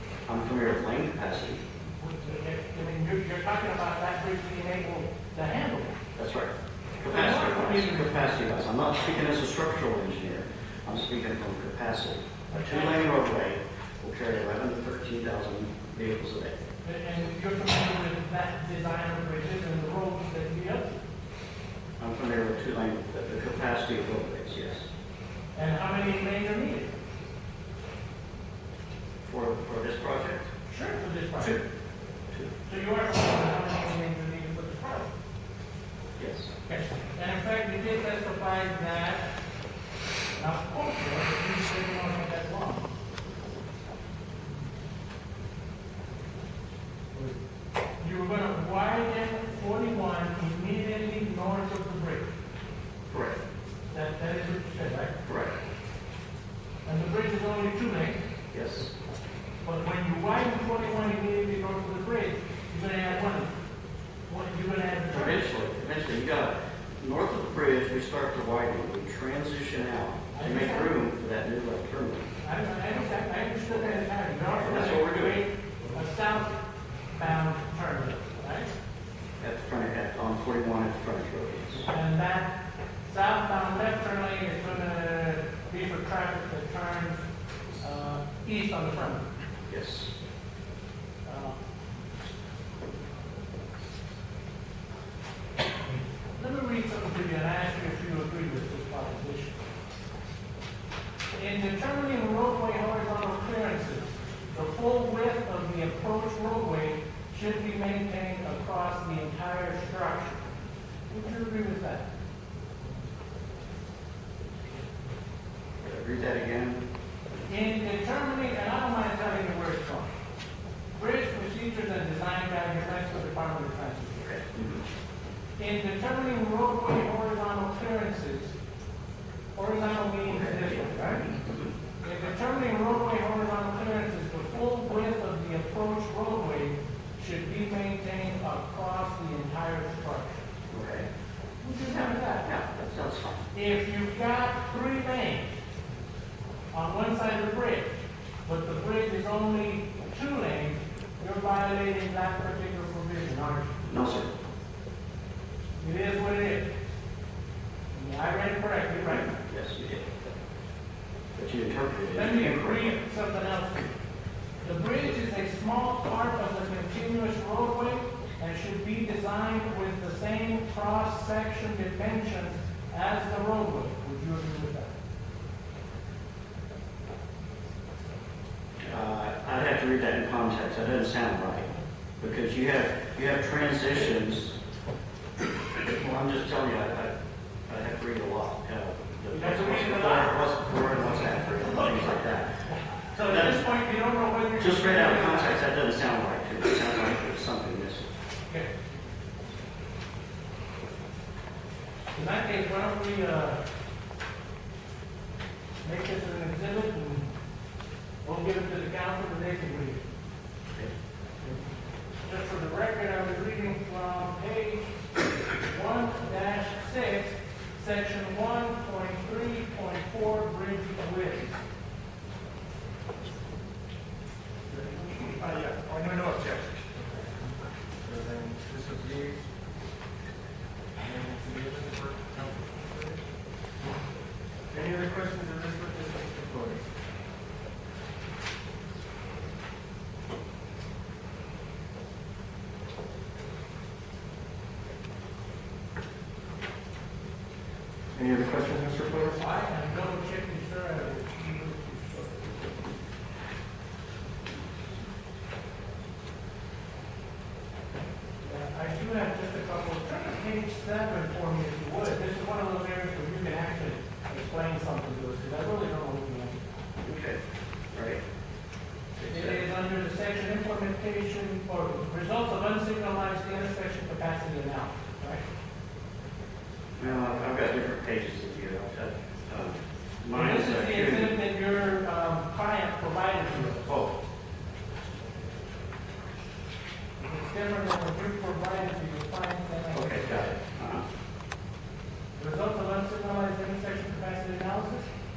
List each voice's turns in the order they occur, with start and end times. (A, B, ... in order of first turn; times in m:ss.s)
0:00.3-0:01.6 A
0:02.0-0:06.0 B
0:06.2-0:16.6 A
0:07.1-0:08.2 B
0:12.5-0:13.0 B
0:16.8-0:21.0 B
0:22.0-0:24.9 A
0:25.6-0:26.9 B
0:29.3-0:30.5 A
0:30.7-0:31.6 B
0:32.7-0:35.1 B
0:36.2-0:36.5 A
0:36.7-0:39.3 B
0:40.4-0:42.9 B
0:48.0-0:52.3 B
0:53.1-0:53.4 A
0:53.9-0:55.2 B
0:55.2-0:55.5 A
0:56.8-0:58.2 B
0:58.5-0:58.9 A
0:59.6-1:03.5 B
1:04.3-1:05.4 B
1:05.1-1:12.3 A
1:10.3-1:10.9 B
1:12.4-1:16.6 B
1:14.6-1:15.4 A
1:17.2-1:18.7 B
1:19.4-1:21.9 A
1:21.9-1:27.2 B
1:27.8-1:29.2 B
1:29.7-1:30.1 A
1:31.2-1:31.6 B
1:35.9-1:39.6 B
1:41.3-1:50.4 B
1:51.1-1:52.1 B
1:55.8-1:56.8 A
1:57.5-2:00.1 B
2:01.0-2:04.4 B
2:04.3-2:04.8 A
2:05.6-2:08.5 B
2:09.6-2:11.3 B
2:10.3-2:11.7 A
2:12.0-2:20.4 B
2:20.7-2:21.1 A
2:21.6-2:22.5 B
2:21.9-2:23.4 A
2:23.5-2:25.6 B
2:26.7-2:27.9 B
2:28.5-2:33.8 B
2:33.9-2:34.3 A
2:35.8-2:36.7 B
2:37.9-2:39.4 B
2:39.1-2:40.4 A
2:41.4-2:43.0 A
2:42.1-2:44.0 B
2:44.6-2:54.9 B
2:58.8-3:01.7 A
3:02.2-3:04.6 A
3:05.8-3:07.1 A
3:07.7-3:12.5 A
3:09.3-3:10.4 B
3:11.7-3:12.0 B
3:13.1-3:15.5 B
3:13.2-3:13.6 A
3:14.6-3:18.1 A
3:18.5-3:18.7 B
3:22.1-3:23.6 B
3:25.8-3:27.3 B
3:28.2-3:30.0 B
3:32.2-3:34.8 B
3:35.7-3:41.6 B
3:44.7-3:47.3 C
3:48.0-3:49.4 C
3:51.0-3:53.2 C
3:54.7-3:56.8 C
4:08.2-4:09.4 C
4:09.3-4:12.6 B
4:18.4-4:26.6 B
4:27.0-4:27.4 A
4:27.9-4:28.2 A
4:29.2-4:29.6 A
4:29.3-4:35.4 B
4:37.0-4:41.3 A
4:40.3-4:43.9 B
4:43.8-4:44.1 A
4:47.2-4:50.4 B
4:49.9-4:51.0 A
4:52.4-4:55.1 B